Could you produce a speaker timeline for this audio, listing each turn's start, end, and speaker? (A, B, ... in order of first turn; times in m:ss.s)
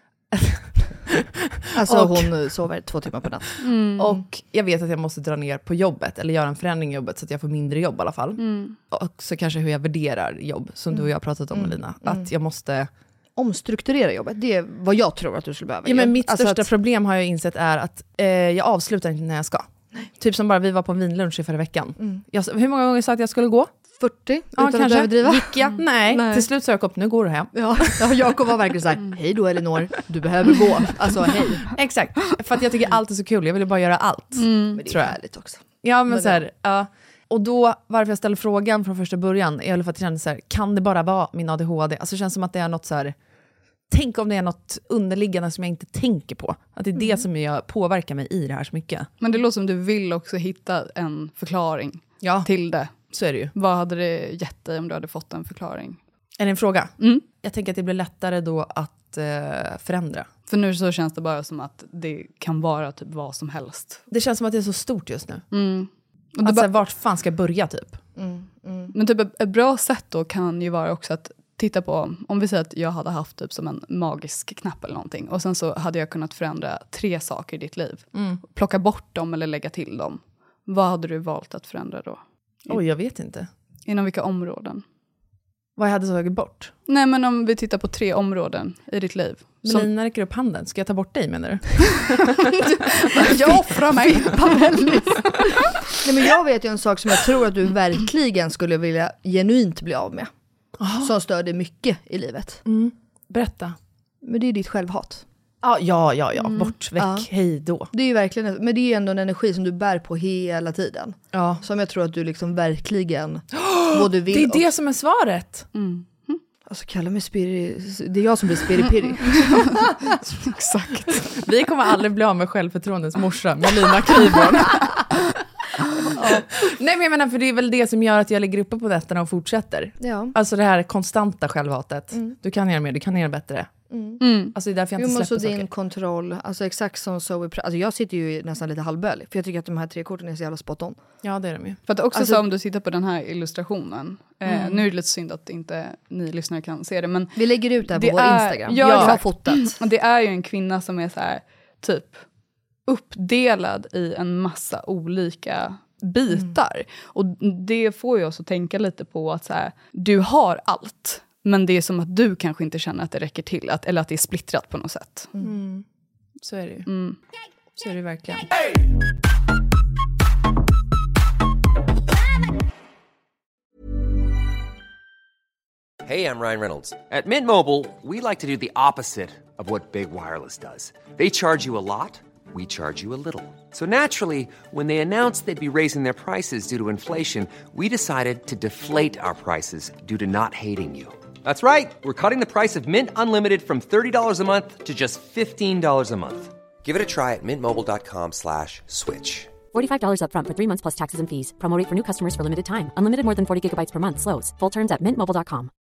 0:00.3-0:02.4 A
0:01.8-0:03.6 B
0:03.6-0:04.2 C
0:04.0-0:12.9 A
0:08.4-0:08.8 C
0:10.9-0:12.3 B
0:13.4-0:16.7 B
0:15.8-0:23.7 A
0:24.0-0:26.4 B
0:24.6-0:28.3 A
0:27.6-0:31.7 B
0:31.7-0:35.2 A
0:34.4-0:34.8 C
0:34.8-0:36.4 B
0:35.8-0:43.2 A
0:43.9-0:49.1 A
0:49.2-0:52.9 C
0:52.2-0:52.5 A
0:53.1-0:53.5 A
0:53.5-0:56.0 C
0:56.4-1:00.3 A
1:00.5-1:04.0 C
1:04.1-1:05.5 A
1:05.5-1:06.7 C
1:06.4-1:08.0 A
1:08.2-1:08.9 B
1:08.9-1:22.8 C
1:18.1-1:18.4 A
1:22.7-1:23.5 A
1:23.9-1:24.8 C
1:25.8-1:26.7 A
1:26.9-1:29.9 C
1:29.6-1:32.4 A
1:32.9-1:35.4 C
1:33.2-1:33.8 A
1:36.0-1:40.3 B
1:40.8-1:41.1 A
1:41.0-1:42.6 B
1:42.6-1:43.8 A
1:44.2-1:45.2 B
1:45.6-1:47.9 A
1:47.0-1:47.3 B
1:47.9-1:54.6 B
1:51.3-1:51.6 A
1:53.6-1:55.7 A
1:55.8-1:56.4 C
1:56.7-1:59.8 B
2:00.3-2:01.3 C
2:01.3-2:05.1 A
2:06.2-2:06.4 B
2:06.2-2:13.7 A
2:10.0-2:10.3 B
2:13.9-2:14.2 B
2:14.2-2:14.5 C
2:14.5-2:15.7 A
2:15.0-2:21.0 B
2:21.2-2:21.8 A
2:21.9-2:32.2 C
2:22.2-2:22.4 B
2:27.4-2:29.8 B
2:28.8-2:29.2 A
2:32.9-2:45.3 C
2:45.4-2:45.8 A
2:46.4-2:46.9 A
2:46.9-2:47.2 C
2:47.8-2:48.5 A
2:56.0-3:19.5 D
3:19.7-3:25.7 E